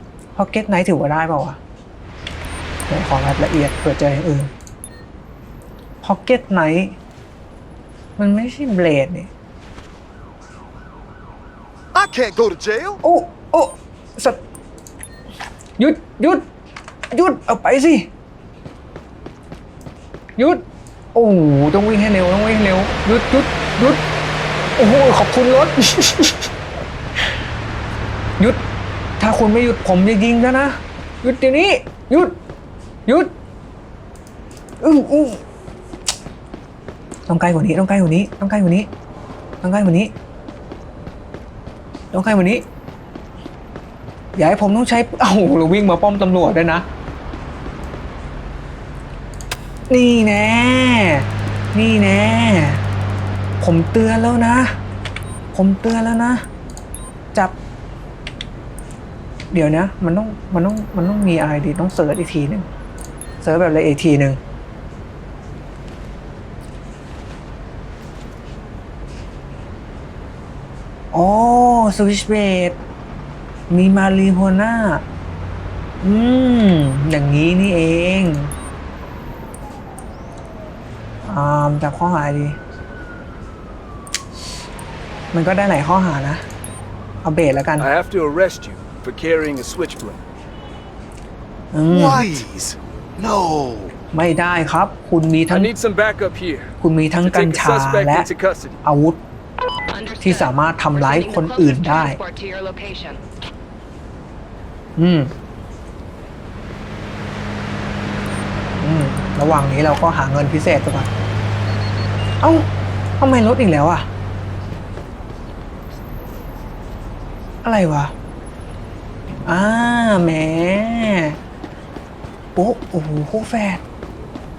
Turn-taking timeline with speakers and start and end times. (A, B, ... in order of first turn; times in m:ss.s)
0:00.3-0:01.6 A
0:02.9-0:04.5 A
0:06.0-0:07.0 A
0:08.2-0:09.3 A
0:11.9-0:13.0 B
0:13.0-0:14.4 A
0:15.8-0:16.5 A
0:17.1-0:18.1 A
0:20.4-0:20.6 A
0:21.1-0:24.0 A
0:24.8-0:26.5 A
0:29.2-0:32.4 A
0:33.0-0:33.3 A
0:34.8-0:35.4 A
0:37.3-0:38.9 A
0:39.6-0:40.1 A
0:42.1-0:42.6 A
0:44.3-0:46.8 A
0:49.9-0:52.8 A
0:53.6-0:54.8 A
0:55.5-0:56.4 A
0:59.5-1:02.7 A
1:03.4-1:04.4 A
1:11.1-1:12.8 A
1:13.7-1:15.0 A
1:16.0-1:18.5 A
1:21.2-1:22.6 A
1:25.3-1:26.4 A
1:27.2-1:27.9 A
1:27.8-1:30.2 C
1:31.7-1:32.4 A
1:31.9-1:34.0 B
1:34.1-1:35.7 A
1:35.5-1:36.7 C
1:36.8-1:38.3 A
1:37.2-1:38.8 C
1:38.8-1:39.2 A
1:39.9-1:43.2 D
1:40.2-1:42.2 A
1:45.0-1:45.3 A
1:48.8-1:51.1 A
1:52.4-1:52.7 A
1:53.2-1:54.1 A
1:57.6-1:58.1 A
1:59.4-2:01.4 A
2:02.6-2:03.8 A